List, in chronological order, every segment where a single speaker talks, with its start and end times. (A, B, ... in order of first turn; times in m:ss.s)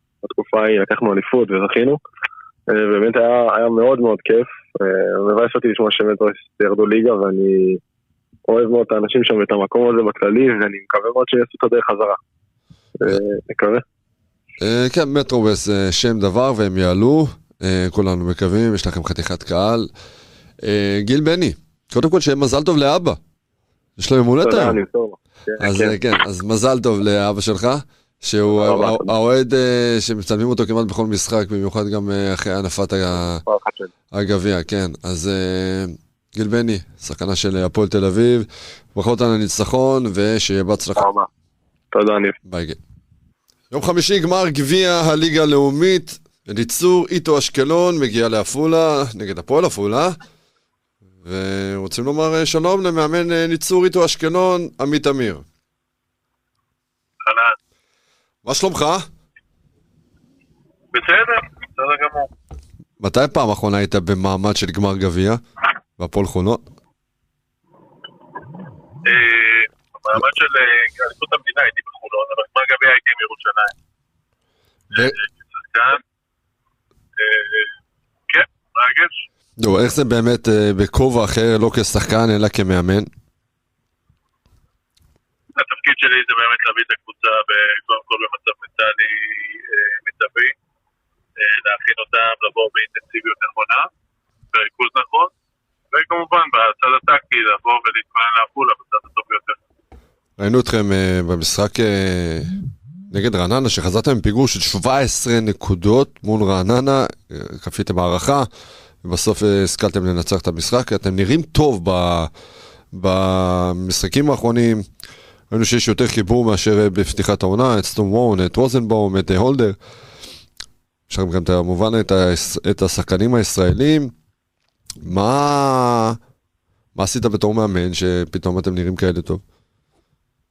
0:00.2-0:02.0 A
0:02.7-0:07.8 A
0:08.5-0:12.2 A
0:13.0-0:13.8 A
0:14.6-0:19.9 B
0:20.6-0:23.2 B
0:24.0-0:24.8 B
0:24.4-0:26.0 A
0:25.6-0:33.4 B
0:28.5-0:29.1 A
0:33.4-0:33.9 A
0:34.1-0:41.1 B
0:41.0-0:41.3 A
0:41.9-0:42.4 A
0:42.4-0:42.8 B
0:43.7-0:50.2 B
0:51.2-0:55.4 B
0:57.2-0:57.6 C
0:58.4-0:59.0 B
1:00.9-1:02.3 C
1:03.0-1:05.4 B
1:06.0-1:06.6 B
1:09.0-1:13.7 C
1:14.9-1:16.0 C
1:17.2-1:17.7 C
1:18.3-1:19.2 C
1:19.6-1:23.1 B
1:25.6-1:30.5 C
1:31.4-1:33.9 C
1:34.5-1:35.3 C
1:35.9-1:39.6 C
1:40.4-1:42.5 B
1:43.1-1:48.5 B
1:49.0-1:52.3 B
1:52.9-1:54.8 B
1:55.5-1:59.8 B
2:01.1-2:04.1 B
2:05.0-2:06.2 B
2:06.9-2:09.4 B